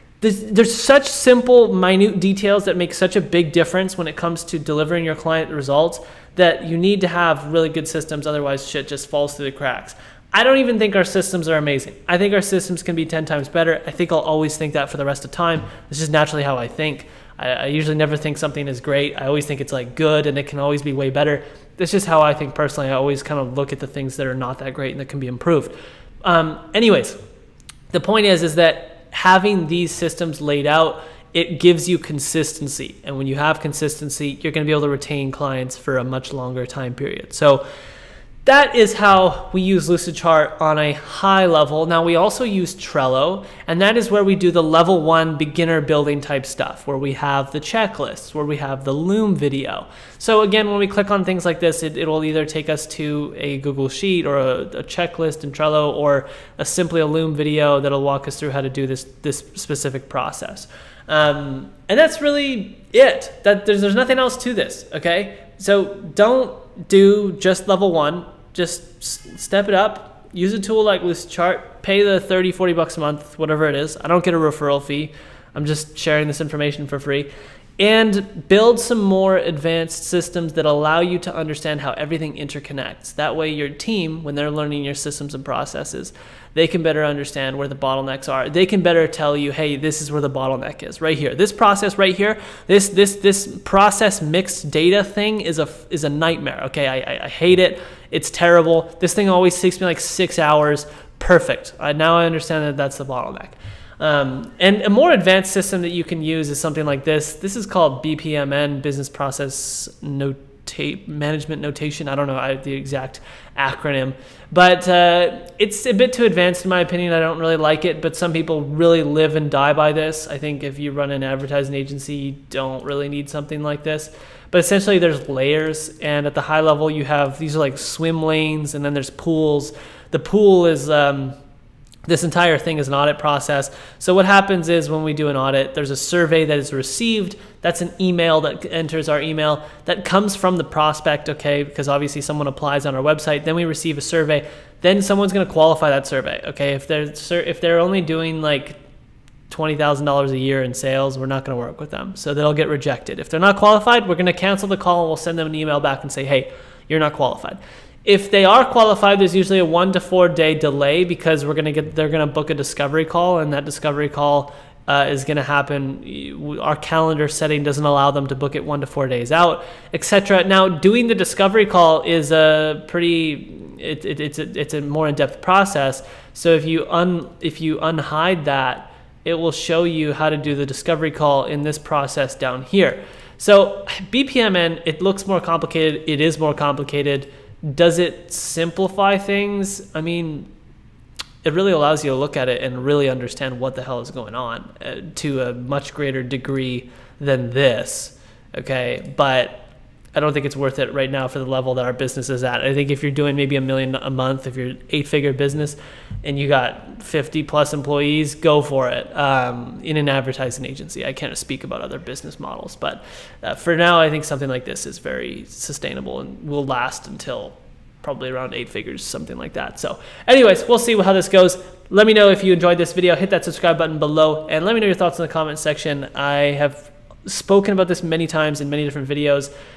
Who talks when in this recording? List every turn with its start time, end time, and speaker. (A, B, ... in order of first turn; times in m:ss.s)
0:00.2-0:27.2 A
0:27.9-0:37.6 A
0:38.4-2:11.3 A
2:12.1-2:28.8 A
2:29.5-3:10.5 A
3:11.4-3:49.5 A